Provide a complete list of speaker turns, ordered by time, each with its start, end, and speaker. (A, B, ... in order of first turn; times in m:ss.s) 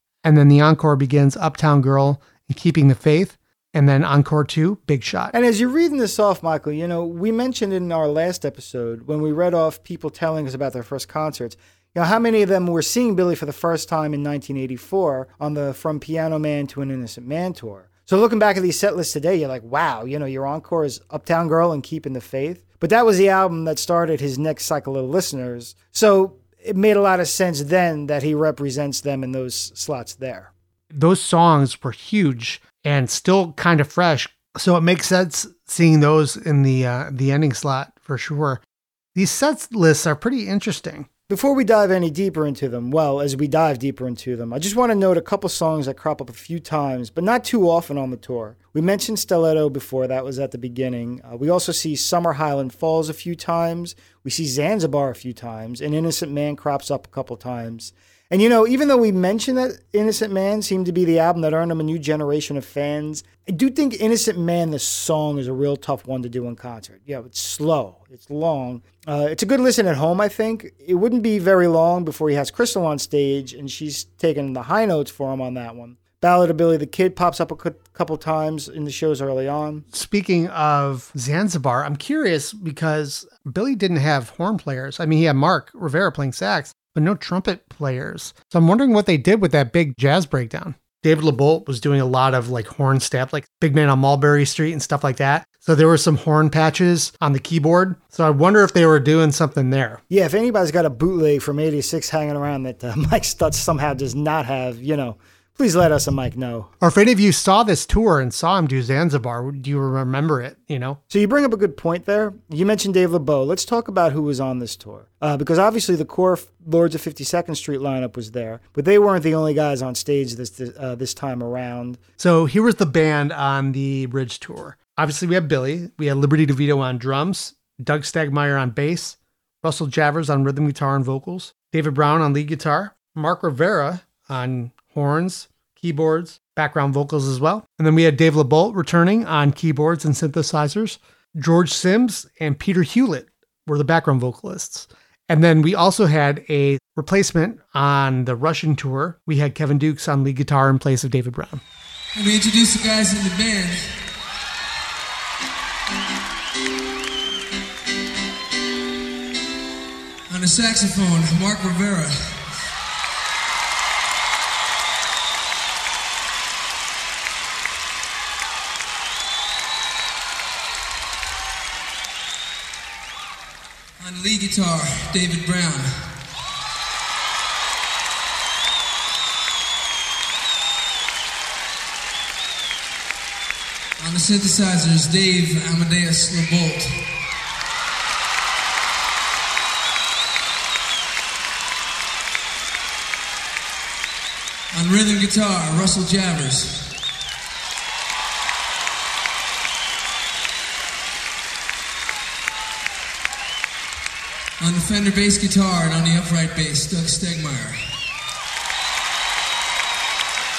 0:00.2-0:05.4 A
0:05.3-0:30.5 B
0:30.9-0:38.6 A
0:39.1-0:41.1 A
0:41.3-1:19.8 B
1:19.9-1:40.0 A
1:40.1-1:46.7 B
1:46.8-1:51.0 A
1:51.1-2:02.0 B
2:02.2-2:31.6 A
2:32.1-2:34.0 C
2:40.3-2:42.5 C
2:54.0-2:56.1 C
3:04.0-3:07.1 C
3:14.7-3:16.9 C
3:24.6-3:27.9 C